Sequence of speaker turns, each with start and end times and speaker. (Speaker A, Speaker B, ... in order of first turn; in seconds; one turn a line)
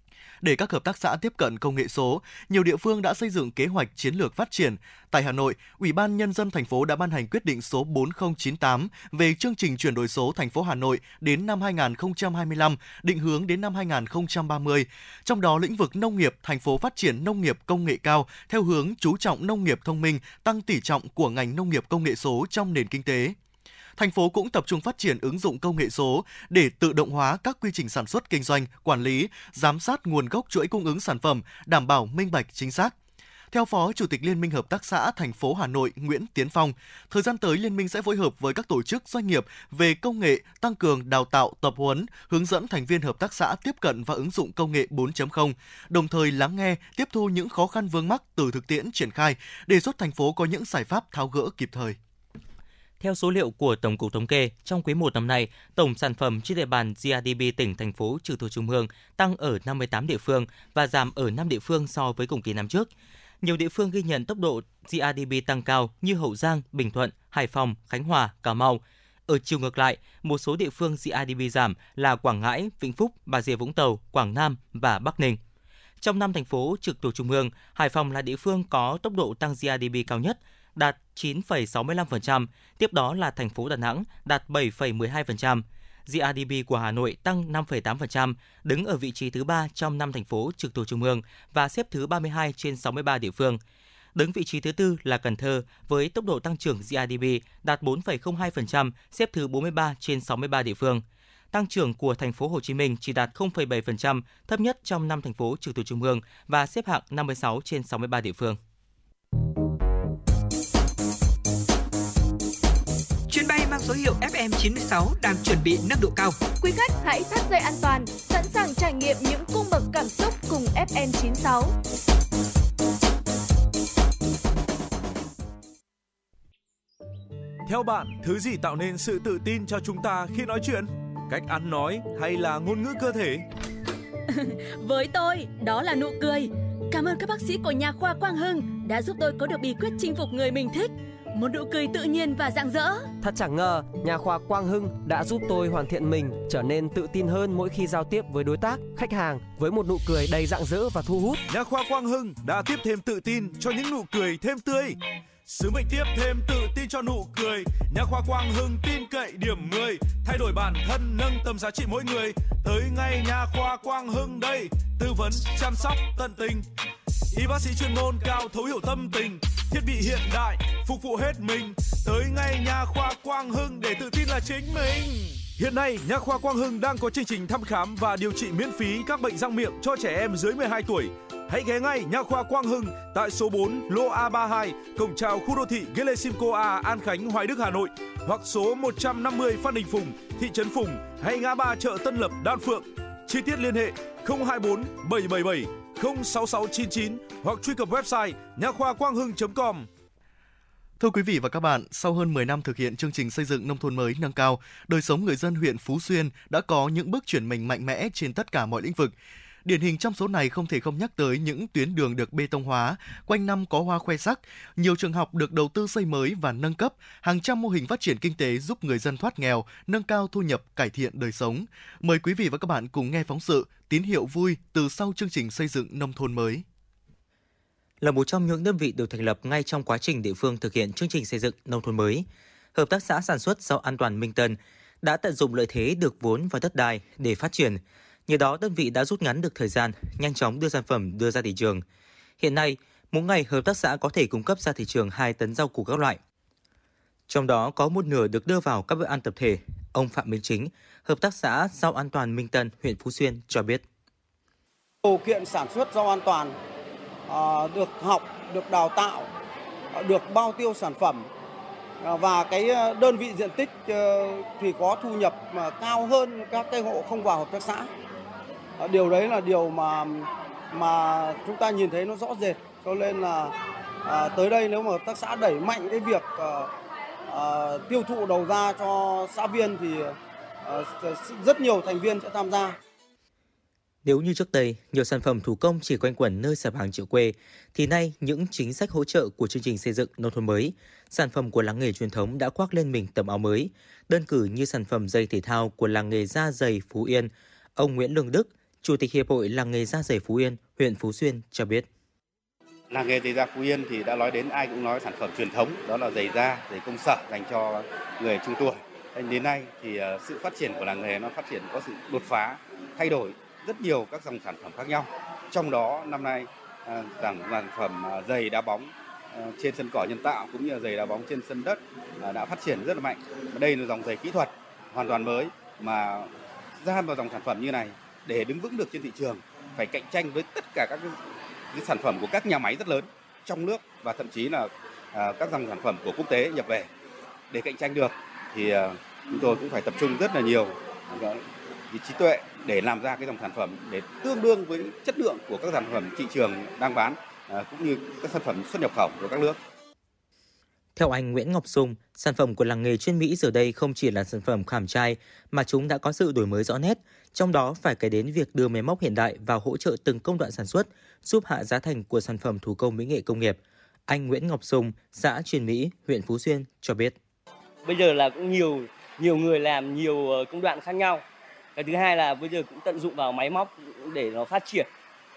Speaker A: 0.4-23.4
Speaker A: 24.0-33.0
Speaker A: 33.5-52.0
Speaker B: 53.0-62.9
Speaker B: 63.4-75.4
Speaker B: 76.0-93.6
Speaker B: 94.2-108.6
Speaker C: 113.3-116.4
Speaker D: 116.6-121.7
Speaker E: 127.7-133.4
Speaker F: 134.3-143.1
Speaker G: 143.2-151.4
Speaker E: 151.5-166.7
Speaker E: 167.3-199.9
Speaker A: 201.0-226.7
Speaker B: 228.0-241.8
Speaker B: 242.4-246.2
Speaker B: 247.3-253.8
Speaker H: 255.0-256.6
Speaker H: 257.3-259.3
Speaker H: 259.9-261.3
Speaker H: 262.0-267.9
Speaker H: 268.8-276.7
Speaker H: 277.3-282.8
Speaker B: 284.1-301.9
Speaker I: 302.9-331.2
Speaker I: 331.7-336.9
Speaker I: 337.5-349.6
Speaker B: 351.0-367.2
Speaker J: 367.8-371.2
Speaker J: 371.8-374.9